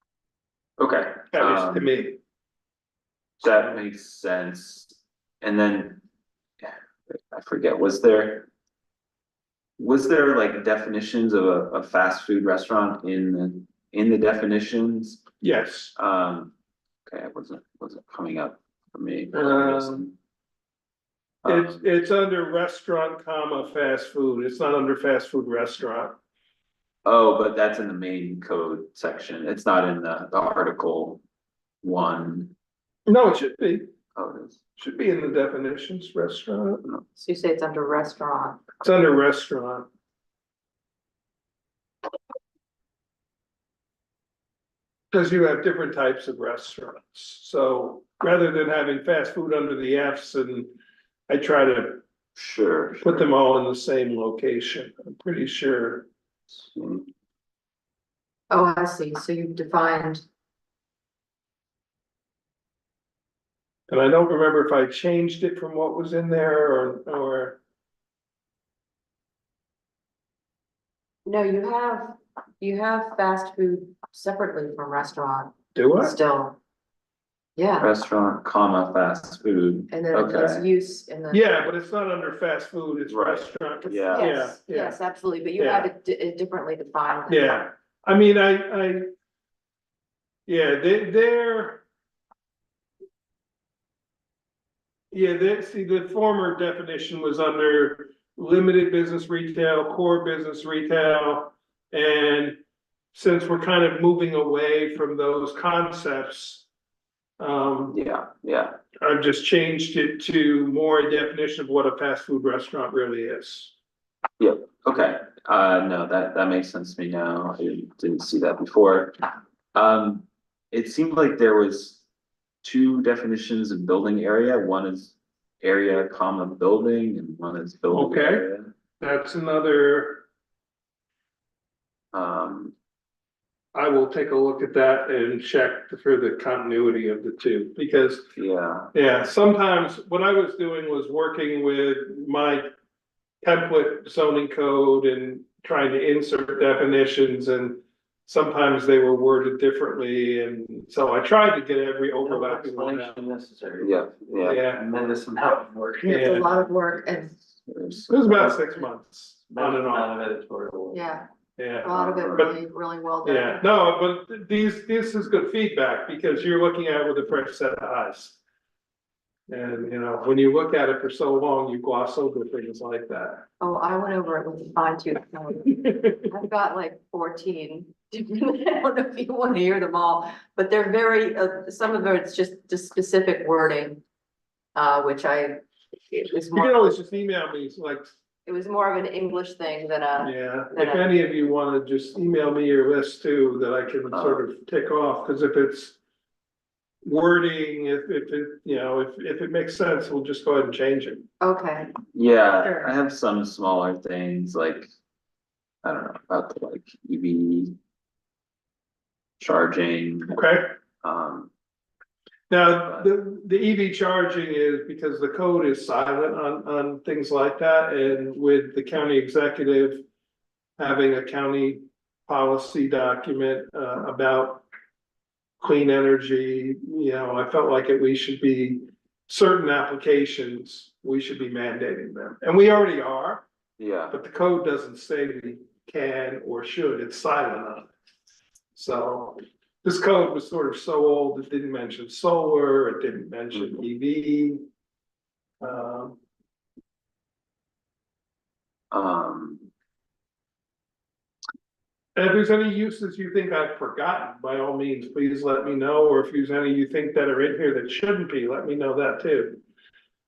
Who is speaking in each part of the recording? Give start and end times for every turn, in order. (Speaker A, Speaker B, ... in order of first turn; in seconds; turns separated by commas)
Speaker A: 0.8-1.9, Speaker B: 1.3-2.2, Speaker A: 3.4-6.0, Speaker B: 3.5-3.8, Speaker A: 6.6-8.5, Speaker A: 9.8-15.2, Speaker B: 15.4-15.9, Speaker A: 15.9-16.5, Speaker A: 17.1-20.2, Speaker B: 19.3-20.0, Speaker A: 21.4-21.8, Speaker B: 21.5-26.2, Speaker A: 27.1-31.2, Speaker A: 31.8-32.5, Speaker B: 33.1-33.9, Speaker A: 34.2-34.6, Speaker B: 34.8-36.8, Speaker C: 37.2-38.6, Speaker B: 38.8-39.9, Speaker B: 45.1-50.7, Speaker B: 51.3-52.0, Speaker A: 52.3-53.3, Speaker B: 53.0-56.0, Speaker A: 56.5-57.1, Speaker C: 58.5-60.2, Speaker B: 63.9-67.6, Speaker C: 71.2-76.6, Speaker B: 75.7-76.1, Speaker C: 77.5-77.9, Speaker A: 77.8-80.7, Speaker C: 79.9-81.5, Speaker B: 81.3-85.0, Speaker A: 83.1-84.3, Speaker C: 84.1-87.6, Speaker B: 85.6-85.9, Speaker B: 87.3-89.1, Speaker B: 90.5-91.8, Speaker B: 95.1-102.6, Speaker B: 103.1-106.7, Speaker B: 107.4-108.0, Speaker A: 107.9-108.8, Speaker B: 109.0-113.7, Speaker A: 114.4-119.2, Speaker A: 119.7-122.0, Speaker A: 122.6-128.7, Speaker B: 127.9-128.5, Speaker B: 129.0-130.2, Speaker A: 132.1-132.7, Speaker B: 133.8-138.3, Speaker A: 138.4-138.9, Speaker B: 138.9-142.7, Speaker B: 143.4-153.1, Speaker D: 152.2-157.2, Speaker A: 153.8-154.7, Speaker B: 154.4-154.8, Speaker B: 156.1-156.4, Speaker C: 156.1-157.3, Speaker A: 157.7-158.3, Speaker B: 158.1-160.1, Speaker D: 159.5-161.1, Speaker C: 160.9-161.2, Speaker B: 161.6-162.6, Speaker C: 161.8-163.6, Speaker B: 163.2-168.4, Speaker B: 169.5-173.5, Speaker C: 173.6-184.0, Speaker C: 184.8-186.9, Speaker B: 186.6-188.1, Speaker C: 188.5-191.1, Speaker B: 190.2-196.0, Speaker A: 194.1-194.4, Speaker B: 197.0-201.2, Speaker C: 201.4-202.0, Speaker A: 202.1-204.9, Speaker A: 205.8-207.8, Speaker A: 209.4-210.4, Speaker B: 210.3-210.7, Speaker A: 211.0-211.5, Speaker B: 212.5-220.0, Speaker B: 220.8-224.7, Speaker B: 225.6-233.4, Speaker A: 233.8-234.2, Speaker B: 234.1-237.9, Speaker B: 238.8-244.6, Speaker B: 245.6-246.2, Speaker A: 248.9-249.7, Speaker B: 252.2-259.6